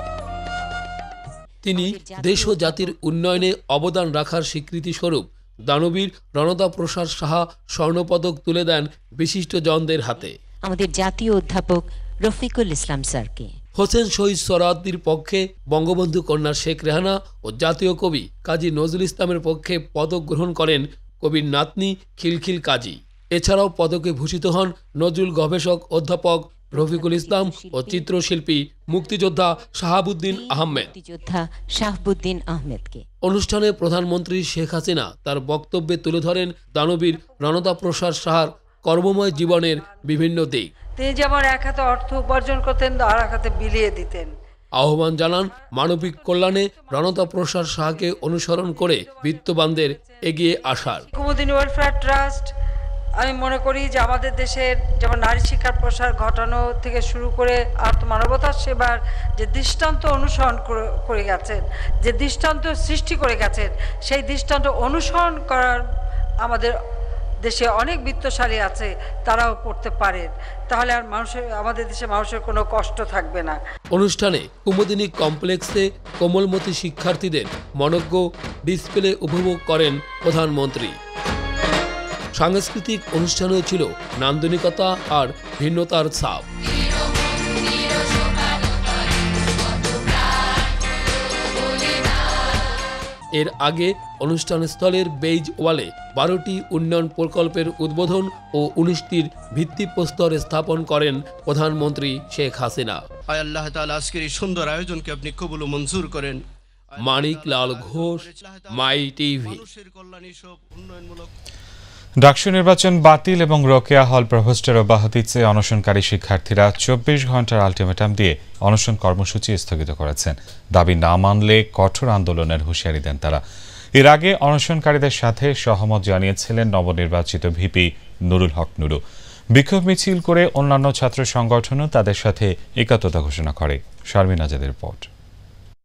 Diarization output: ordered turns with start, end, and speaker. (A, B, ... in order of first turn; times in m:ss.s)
0:01.6-0:10.3 A
0:01.8-0:03.5 B
0:10.6-0:13.5 B
0:13.8-0:30.9 A
0:26.7-0:28.1 B
0:30.3-0:33.0 B
0:33.2-0:40.7 A
0:41.0-0:44.3 C
0:44.8-0:51.0 A
0:49.1-0:50.1 C
0:51.1-0:52.5 C
0:53.2-1:05.8 C
1:06.4-1:06.8 C
1:07.4-1:13.6 C
1:13.9-1:21.0 A
1:22.3-1:26.4 A
1:33.4-1:43.0 A
1:43.3-1:46.4 D
1:47.0-1:49.6 A
1:47.1-1:51.3 D
1:52.2-2:03.4 E
2:04.0-2:09.0 E
2:09.5-2:15.1 E